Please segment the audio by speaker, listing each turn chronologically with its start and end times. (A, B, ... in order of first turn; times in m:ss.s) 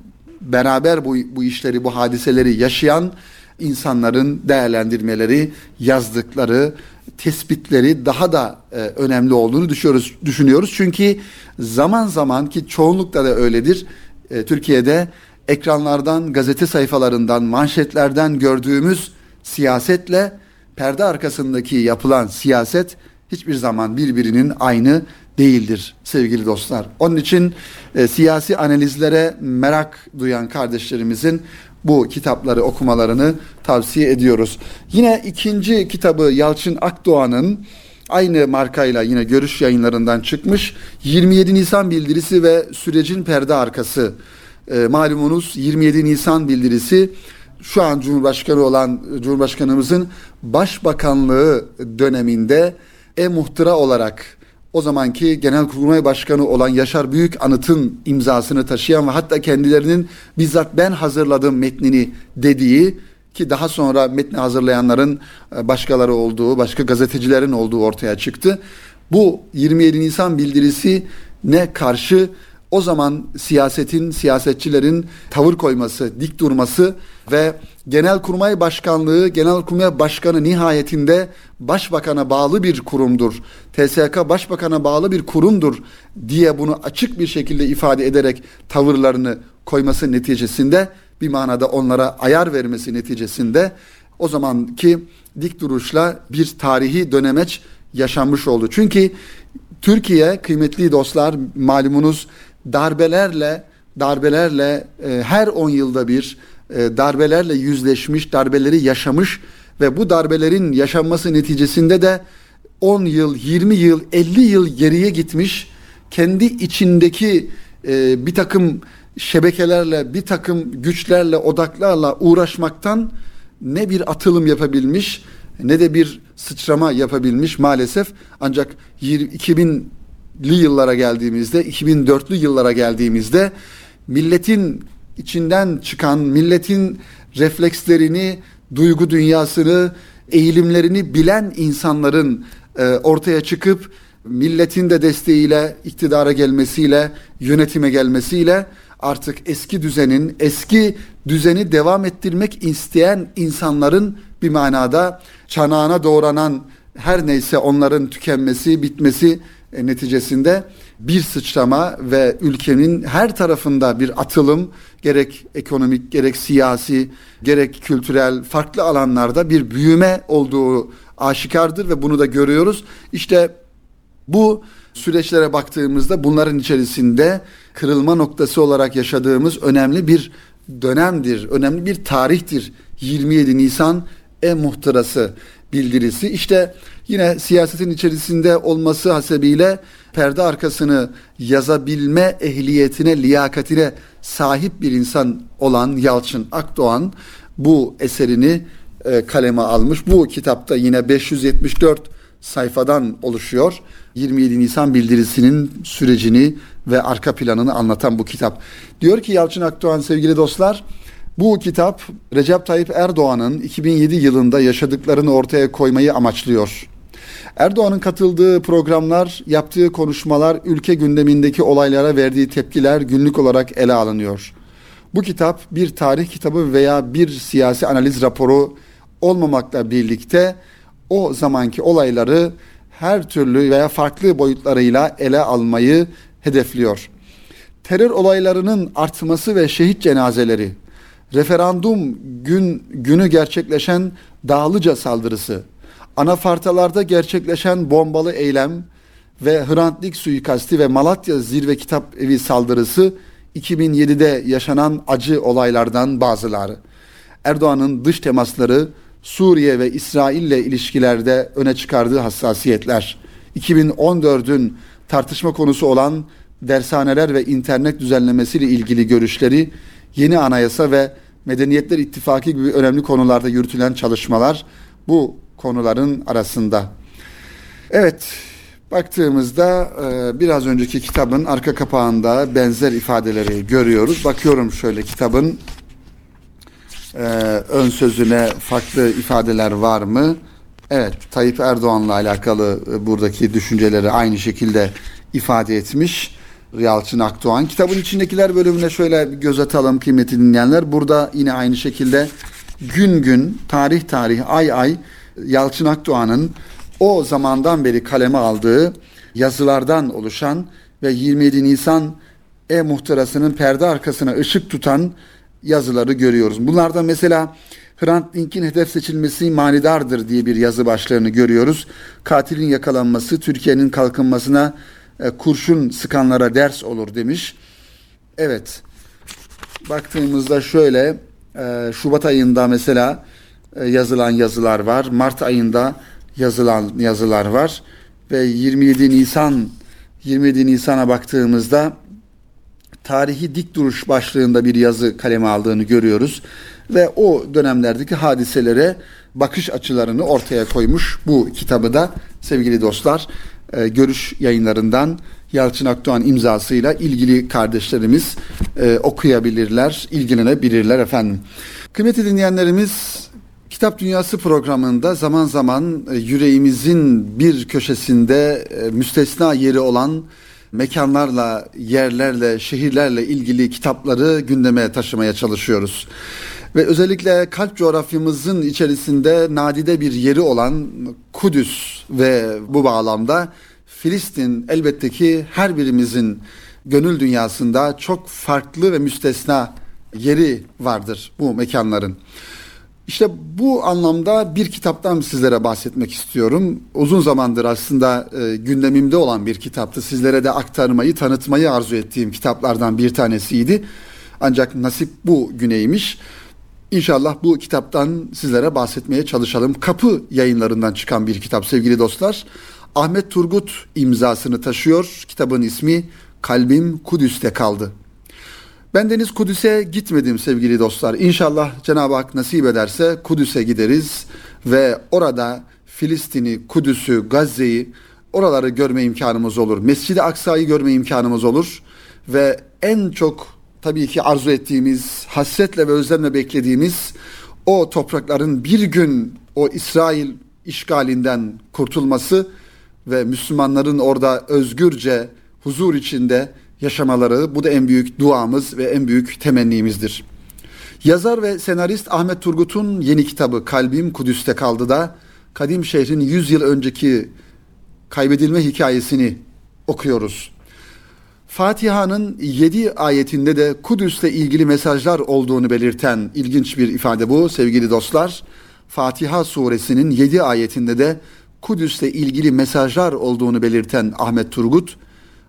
0:00.4-1:08.6 A
1:09.1-1:39.2 A
1:39.8-1:52.2 A
1:52.8-2:13.5 A
2:14.1-2:53.5 A
2:54.3-3:30.8 A
3:31.4-3:36.9 A
3:37.6-3:44.5 A
3:45.1-3:50.6 A
3:51.1-3:57.1 A
3:57.8-4:00.8 A
4:01.3-4:08.9 A
4:09.4-4:16.8 A
4:17.4-4:36.9 A
4:37.9-4:45.6 A
4:47.1-4:50.4 A
4:50.9-5:02.3 A
5:02.8-5:12.2 A
5:12.7-5:27.6 A
5:28.4-5:28.8 A
5:29.9-5:33.2 A
5:33.8-5:42.0 A
5:43.0-6:16.1 A
6:16.7-6:32.2 A
6:33.1-6:43.8 A
6:44.4-6:46.2 A
6:46.9-6:57.9 A
6:58.9-7:22.5 A
7:23.1-7:30.2 A
7:31.0-7:37.3 A
7:38.1-7:40.5 A
7:41.5-7:55.0 A